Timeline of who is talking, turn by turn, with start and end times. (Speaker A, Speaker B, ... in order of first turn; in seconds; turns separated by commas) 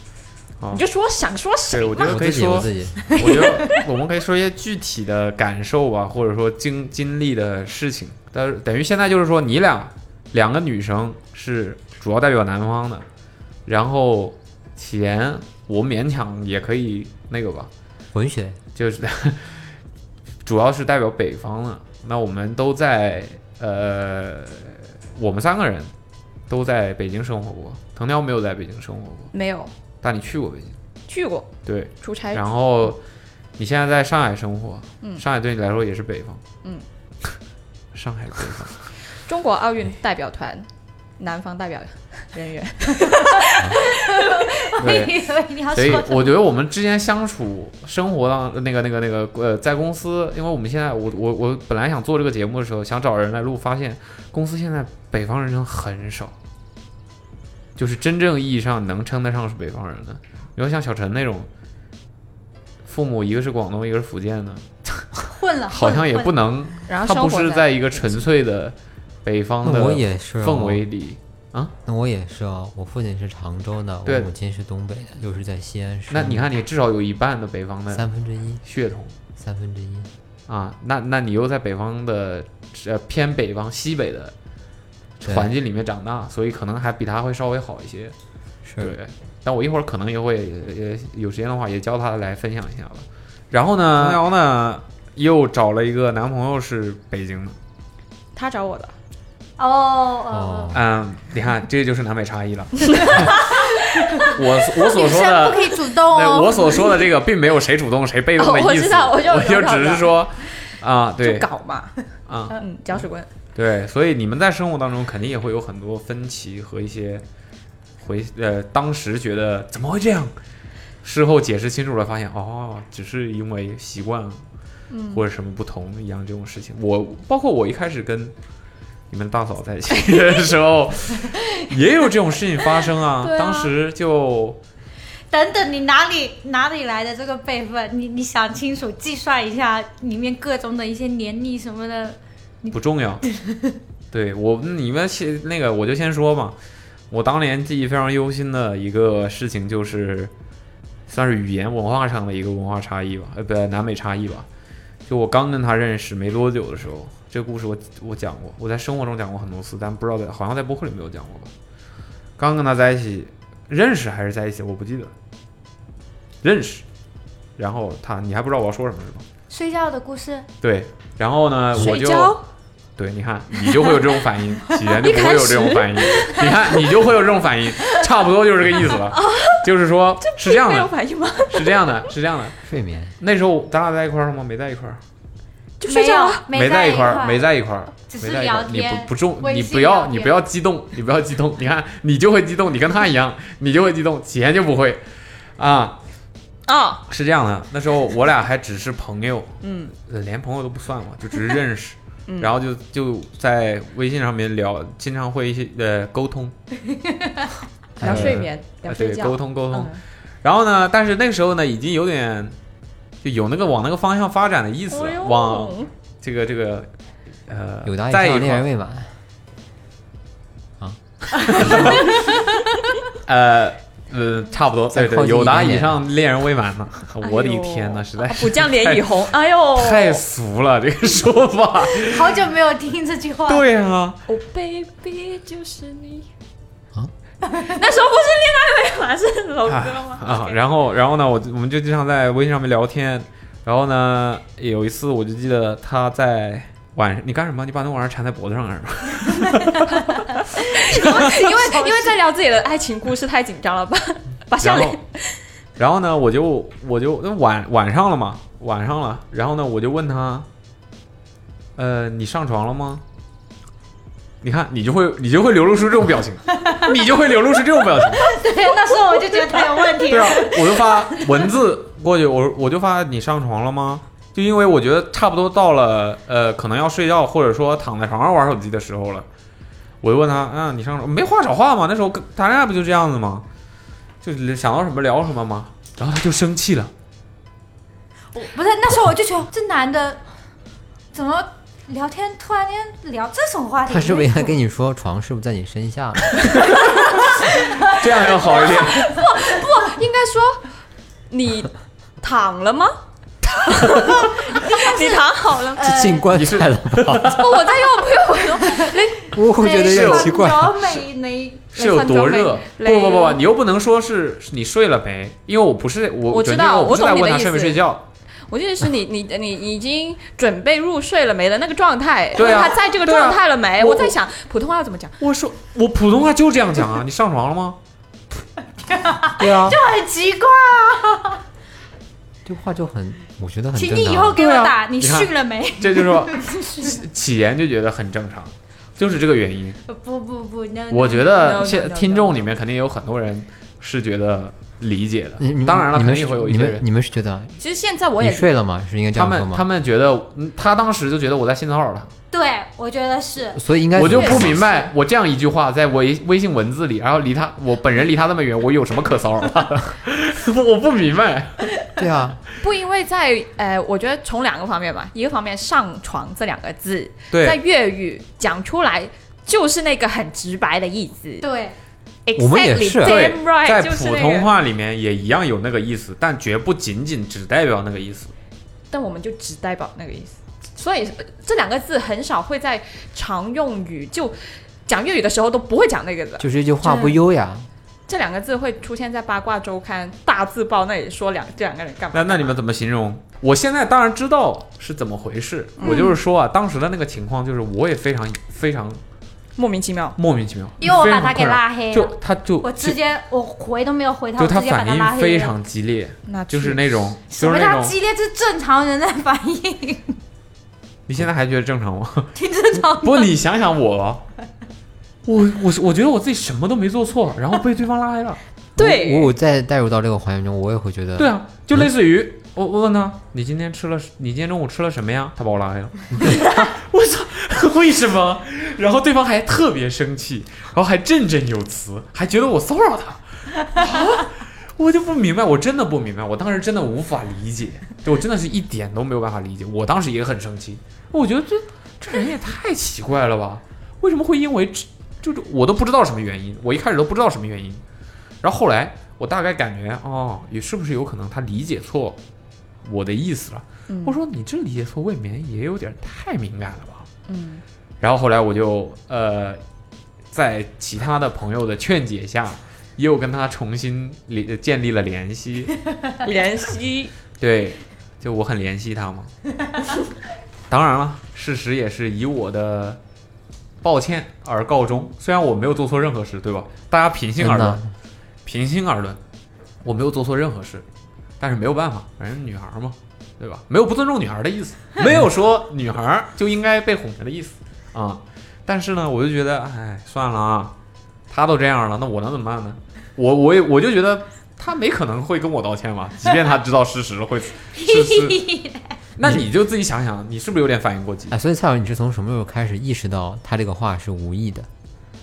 Speaker A: 0.7-2.3, Speaker B: 1.7-13.1, Speaker C: 2.0-3.2, Speaker A: 3.1-3.6, Speaker B: 13.7-17.7, Speaker C: 18.1-18.6, Speaker B: 18.8-19.7, Speaker B: 20.4-25.9, Speaker B: 26.5-29.3, Speaker A: 29.3-29.7, Speaker B: 30.0-30.8, Speaker A: 31.1-32.5, Speaker B: 31.7-33.0, Speaker B: 33.6-36.4, Speaker B: 37.9-38.8, Speaker A: 39.2-40.7, Speaker A: 41.2-44.7, Speaker D: 44.0-46.4, Speaker B: 44.8-45.2, Speaker B: 45.7-56.3, Speaker B: 57.8-61.5, Speaker B: 62.9-65.1, Speaker D: 65.4-66.4, Speaker B: 65.7-71.7, Speaker A: 66.9-68.3, Speaker C: 69.6-70.8, Speaker C: 71.8-76.5, Speaker B: 76.1-78.0, Speaker C: 77.9-78.6, Speaker B: 78.6-79.2, Speaker C: 79.4-80.1, Speaker B: 80.5-84.3, Speaker B: 85.2-88.1, Speaker C: 85.3-85.5, Speaker C: 88.7-89.0, Speaker B: 88.8-97.6, Speaker C: 94.0-94.2, Speaker A: 98.4-98.9, Speaker D: 99.6-100.7, Speaker C: 100.3-100.9, Speaker B: 100.7-103.5, Speaker D: 103.4-106.9, Speaker B: 104.2-111.5, Speaker A: 108.4-110.2, Speaker A: 111.2-111.9, Speaker B: 112.3-112.6, Speaker A: 112.5-113.3, Speaker B: 113.5-117.2, Speaker B: 118.0-120.3, Speaker B: 121.0-124.4, Speaker A: 124.9-125.2, Speaker B: 125.1-128.3, Speaker B: 129.1-134.6, Speaker A: 133.2-133.7, Speaker D: 135.3-143.8, Speaker B: 142.7-143.2, Speaker B: 144.1-146.6, Speaker B: 147.1-150.3, Speaker B: 151.1-154.5, Speaker B: 155.1-161.5, Speaker B: 162.4-165.1, Speaker B: 166.4-166.8, Speaker B: 167.6-169.2, Speaker D: 169.5-170.5, Speaker B: 170.6-172.4, Speaker A: 171.7-172.4, Speaker B: 173.0-180.9, Speaker A: 173.6-174.1, Speaker A: 175.0-177.0, Speaker A: 178.8-179.7, Speaker A: 180.2-182.1, Speaker B: 181.5-182.6, Speaker C: 182.7-183.2, Speaker B: 183.2-185.0, Speaker A: 185.8-186.4, Speaker D: 185.9-187.4, Speaker B: 186.5-195.0, Speaker D: 188.0-190.4, Speaker B: 195.6-196.0, Speaker A: 196.7-197.1, Speaker B: 197.1-206.6, Speaker A: 199.6-199.9, Speaker A: 202.3-202.6, Speaker C: 208.0-208.5, Speaker A: 208.0-210.0, Speaker B: 208.0-212.6, Speaker B: 213.2-216.9, Speaker A: 214.9-215.9, Speaker B: 217.5-218.7, Speaker C: 217.8-219.2, Speaker C: 220.8-221.9, Speaker B: 221.5-222.4, Speaker B: 223.2-232.4, Speaker C: 224.9-226.1, Speaker A: 227.2-230.2, Speaker D: 232.0-233.6, Speaker B: 233.5-234.2, Speaker A: 234.3-236.3, Speaker A: 237.6-240.6, Speaker B: 239.7-250.3, Speaker D: 250.1-252.2, Speaker A: 250.7-255.4, Speaker B: 250.9-251.3, Speaker B: 254.6-255.0, Speaker B: 255.8-260.5, Speaker B: 261.8-263.0, Speaker B: 264.4-268.4, Speaker D: 266.6-266.9, Speaker D: 268.2-271.2, Speaker B: 270.0-279.3, Speaker B: 280.0-283.5, Speaker B: 284.2-286.9, Speaker D: 288.3-290.2, Speaker D: 291.1-294.6, Speaker C: 293.9-296.6, Speaker B: 297.4-299.2, Speaker A: 298.3-300.7, Speaker A: 301.3-306.0, Speaker D: 304.2-306.3, Speaker C: 305.8-307.5, Speaker B: 306.3-307.4, Speaker A: 307.3-309.3, Speaker D: 308.6-311.7, Speaker C: 309.3-311.0, Speaker B: 309.8-310.3, Speaker B: 311.7-318.0, Speaker A: 311.8-313.4, Speaker A: 316.3-317.8, Speaker A: 318.5-325.2, Speaker B: 322.4-324.2, Speaker B: 325.2-327.8, Speaker D: 328.8-331.4, Speaker C: 329.4-329.8, Speaker C: 332.4-334.4, Speaker D: 333.8-336.4, Speaker B: 334.4-339.8, Speaker D: 339.9-341.4, Speaker B: 340.9-346.8, Speaker A: 341.2-342.5, Speaker C: 345.4-347.6, Speaker A: 347.6-348.5, Speaker C: 348.2-349.7, Speaker B: 349.1-352.1, Speaker D: 352.3-354.4, Speaker C: 353.5-354.7, Speaker B: 353.9-361.7, Speaker C: 362.0-362.4, Speaker A: 362.6-371.4, Speaker B: 367.3-367.6, Speaker D: 371.4-371.8, Speaker A: 372.3-374.5, Speaker C: 372.4-373.2, Speaker B: 373.0-378.3, Speaker A: 378.9-386.5, Speaker C: 386.4-387.7, Speaker D: 386.9-387.1, Speaker A: 388.1-392.5, Speaker B: 392.1-399.0, Speaker A: 395.8-396.2, Speaker D: 395.8-396.1, Speaker A: 399.6-400.2, Speaker B: 400.2-403.0, Speaker D: 400.8-405.6, Speaker B: 404.4-407.9, Speaker A: 406.3-406.9, Speaker D: 407.3-410.2, Speaker B: 411.1-414.2, Speaker D: 412.4-413.3, Speaker B: 415.2-418.4, Speaker A: 418.8-419.3, Speaker C: 418.8-421.9, Speaker B: 421.2-447.8, Speaker B: 448.4-452.2, Speaker B: 452.8-457.1, Speaker A: 453.9-454.2, Speaker A: 457.3-457.6, Speaker B: 458.0-459.6, Speaker B: 460.3-465.7, Speaker A: 466.2-467.1, Speaker B: 467.4-469.3, Speaker B: 470.7-473.0, Speaker B: 473.8-477.8, Speaker C: 477.4-477.9, Speaker B: 478.4-479.2, Speaker B: 479.8-480.9, Speaker B: 481.4-490.8, Speaker B: 491.3-498.4, Speaker D: 497.8-498.9, Speaker B: 499.2-501.4, Speaker C: 499.2-499.5, Speaker C: 501.3-504.7